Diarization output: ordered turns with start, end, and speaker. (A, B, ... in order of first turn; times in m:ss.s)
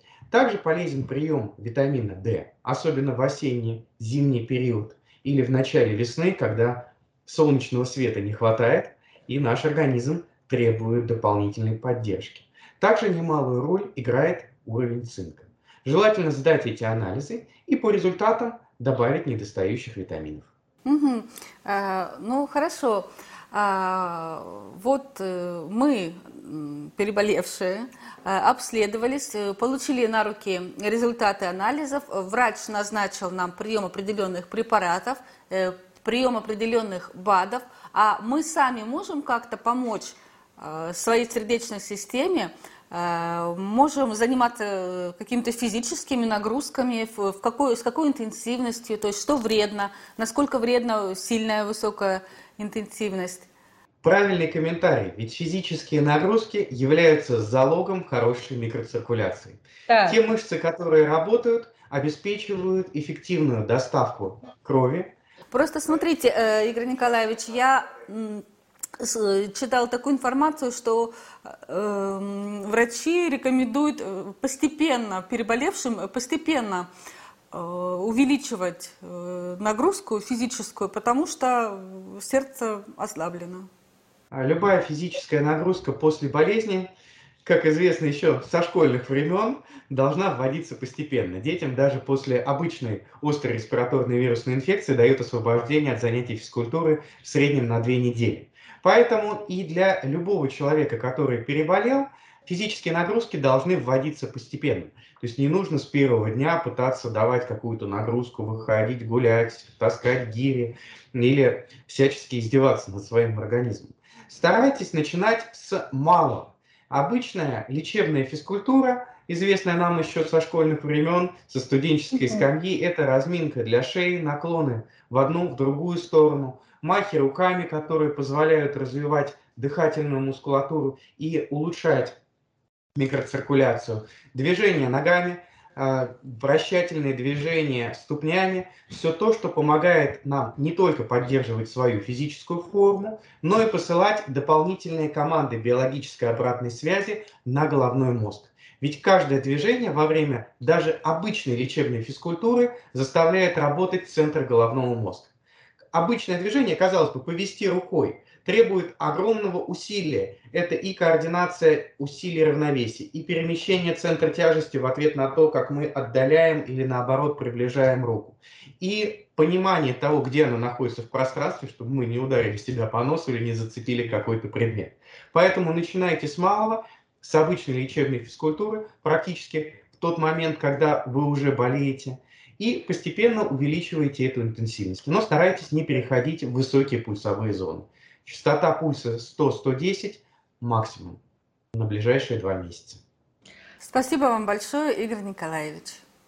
0:00.3-0:20.5 A
0:20.8-0:53.5 B
0:54.0-1:05.1 A
0:59.9-1:00.2 B
1:05.5-1:08.4 B
1:09.0-1:16.9 B
1:17.5-1:23.7 B
1:24.3-1:26.9 A
1:27.4-2:12.2 A
2:02.2-2:02.4 B
2:12.9-2:35.3 A
2:35.9-3:11.2 A
3:11.7-3:13.0 A
3:13.8-3:16.0 B